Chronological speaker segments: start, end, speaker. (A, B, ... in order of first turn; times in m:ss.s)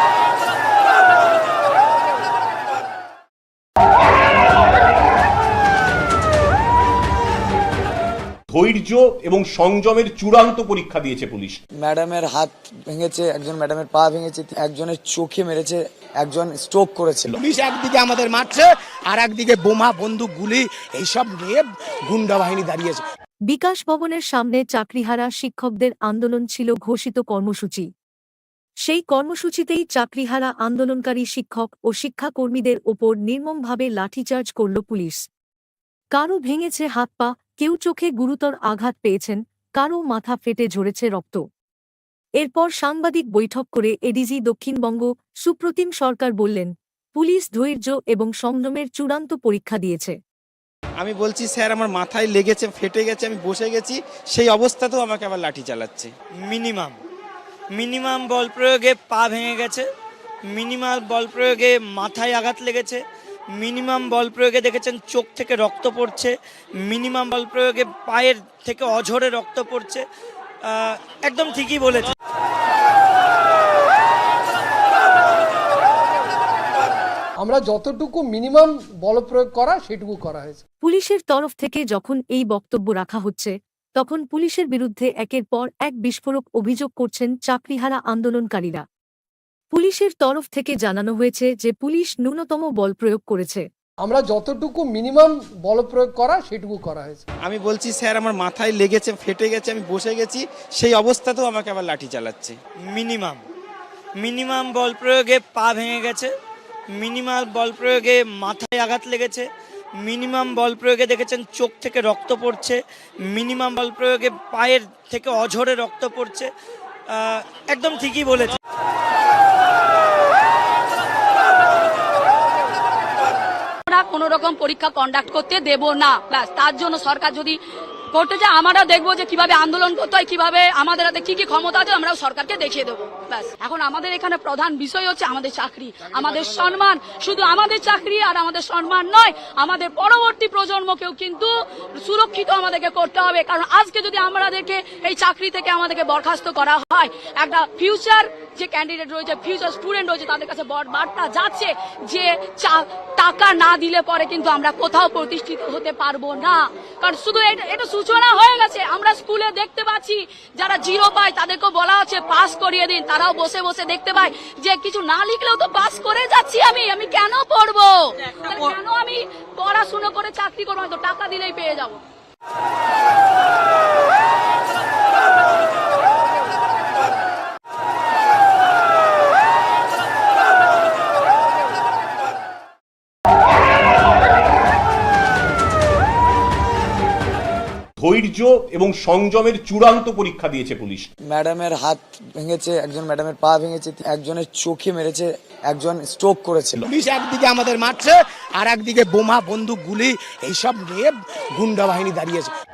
0:08.5-0:11.6 A
0:11.8-0:17.3 B
0:17.3-0:23.0 C
0:23.5-0:27.9 D
0:28.8-0:35.2 D
0:36.1-0:41.4 D
0:42.4-0:50.2 D
0:51.0-0:56.1 E
0:56.4-0:57.0 F
0:57.7-0:59.9 F
1:00.5-1:03.0 F
1:03.5-1:10.0 F
1:10.6-1:12.1 F
1:17.4-1:20.6 G
1:20.8-1:28.8 D
1:29.7-1:33.6 D
1:34.0-1:37.2 G
1:37.5-1:42.5 E
1:42.9-1:43.4 F
1:44.2-1:46.3 F
1:47.0-1:49.5 F
1:50.0-1:56.5 F
1:57.1-1:58.5 F
2:03.9-2:07.6 H
2:08.1-2:52.0 H
3:08.0-3:11.1 A
3:11.3-3:16.8 B
3:16.8-3:22.5 C